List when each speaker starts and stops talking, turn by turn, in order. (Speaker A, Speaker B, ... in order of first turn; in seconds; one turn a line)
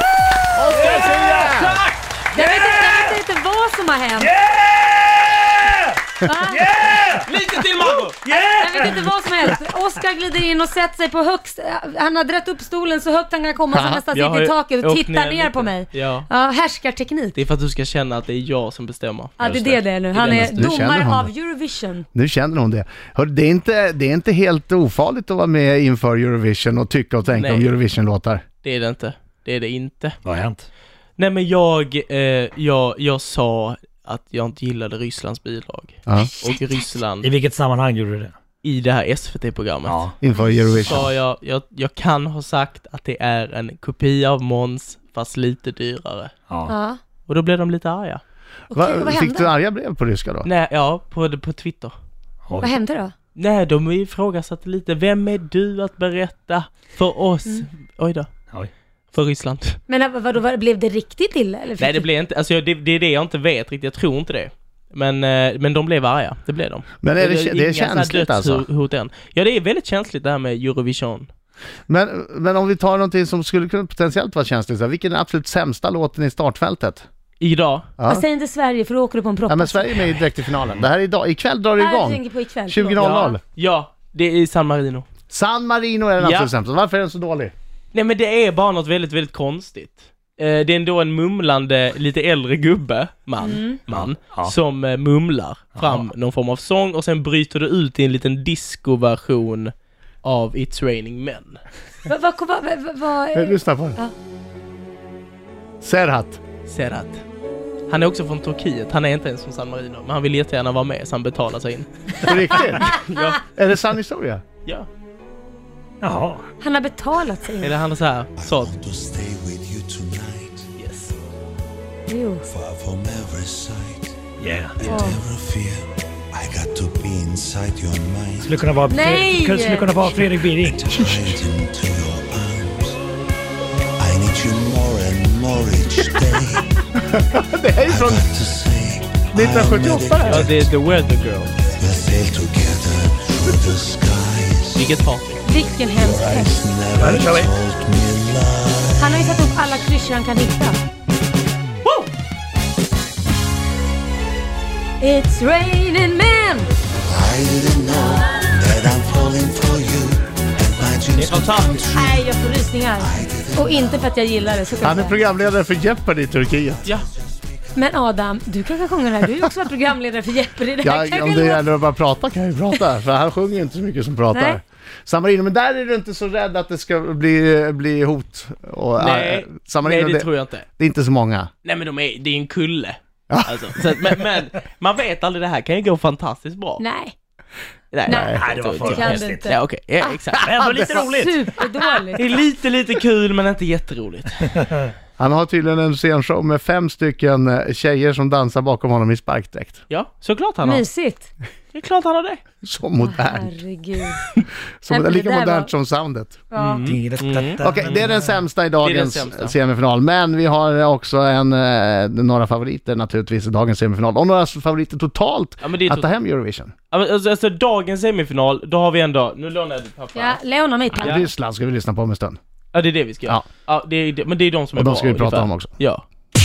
Speaker A: 0.5-1.8
Speaker B: 0.7-1.7
Speaker C: 1.3-2.2
Speaker B: 2.3-3.2
Speaker D: 2.3-4.3
Speaker B: 4.2-7.3
Speaker D: 6.2-7.0
Speaker C: 7.3-8.2
Speaker B: 8.2-9.6
Speaker D: 8.6-17.4
Speaker A: 13.7-14.0
Speaker C: 14.1-16.3
Speaker C: 17.4-20.8
Speaker D: 19.4-22.1
Speaker A: 19.4-19.7
Speaker A: 20.2-21.3
Speaker A: 22.1-28.4
Speaker C: 27.3-27.7
Speaker C: 28.6-30.2
Speaker B: 30.2-30.7
Speaker C: 31.2-37.3
Speaker B: 37.2-38.3
Speaker C: 38.6-40.1
Speaker B: 39.9-40.1
Speaker A: 40.2-41.1
Speaker C: 40.8-46.3
Speaker D: 46.7-47.0
Speaker C: 47.3-48.2
Speaker D: 48.7-49.5
Speaker A: 48.7-50.5
Speaker C: 50.5-52.0
Speaker B: 52.5-52.7
Speaker D: 52.6-53.1
Speaker C: 53.4-58.3
Speaker C: 59.1-59.8
Speaker D: 59.9-62.1
Speaker C: 61.8-71.3
Speaker A: 67.0-68.7
Speaker A: 71.9-77.0
Speaker C: 77.4-77.9
Speaker A: 78.0-78.2
Speaker D: 78.1-80.1
Speaker A: 79.5-83.4
Speaker D: 81.8-83.4
Speaker C: 83.0-85.1
Speaker A: 85.3-87.5
Speaker C: 86.2-86.5
Speaker C: 87.9-99.7
Speaker D: 93.4-93.8
Speaker B: 93.9-94.5
Speaker B: 95.8-96.1
Speaker C: 100.2-101.6
Speaker D: 102.1-104.1
Speaker A: 103.3-104.0
Speaker A: 105.8-106.4
Speaker C: 106.7-107.2
Speaker C: 107.9-113.4
Speaker A: 112.2-114.4
Speaker B: 116.0-116.5
Speaker D: 116.6-117.8
Speaker C: 117.6-118.7
Speaker E: 118.4-120.7
Speaker C: 120.8-121.1
Speaker D: 122.1-122.5
Speaker E: 122.5-124.2
Speaker B: 124.4-125.0
Speaker E: 124.8-128.7
Speaker D: 124.8-125.2
Speaker B: 128.4-131.1
Speaker D: 128.9-130.1
Speaker E: 130.7-133.0
Speaker E: 134.0-136.8
Speaker A: 136.9-138.2
Speaker E: 137.9-140.6
Speaker A: 139.3-140.5
Speaker C: 140.3-141.5
Speaker E: 141.8-144.9
Speaker C: 144.7-145.5
Speaker D: 145.4-146.6
Speaker E: 145.9-149.4
Speaker B: 146.9-147.5
Speaker D: 149.0-150.8
Speaker D: 155.0-156.7
Speaker E: 157.1-162.2
Speaker C: 161.1-161.8
Speaker D: 161.9-165.2
Speaker E: 163.0-164.1
Speaker A: 164.8-166.8
Speaker D: 167.8-171.6
Speaker A: 170.8-181.5
Speaker D: 174.3-174.6
Speaker C: 179.0-180.7
Speaker C: 181.6-186.8
Speaker A: 183.3-184.2
Speaker D: 186.8-187.1
Speaker C: 187.9-190.4
Speaker D: 188.1-189.7
Speaker A: 188.1-188.4
Speaker B: 188.3-189.5
Speaker B: 190.4-191.7
Speaker A: 190.6-190.9
Speaker D: 190.7-192.2
Speaker C: 192.2-194.5
Speaker A: 195.2-199.8
Speaker C: 199.9-200.8
Speaker D: 200.6-201.3
Speaker C: 201.7-202.4
Speaker A: 202.6-203.6
Speaker D: 203.0-204.2
Speaker A: 204.8-206.4
Speaker D: 204.9-205.7
Speaker D: 206.5-206.8
Speaker C: 206.6-208.1
Speaker B: 206.8-208.4
Speaker A: 207.6-216.7
Speaker C: 208.8-209.6
Speaker C: 215.6-216.1
Speaker C: 216.9-220.4
Speaker D: 220.2-221.2
Speaker A: 220.9-222.4
Speaker C: 222.7-226.0
Speaker A: 224.8-225.7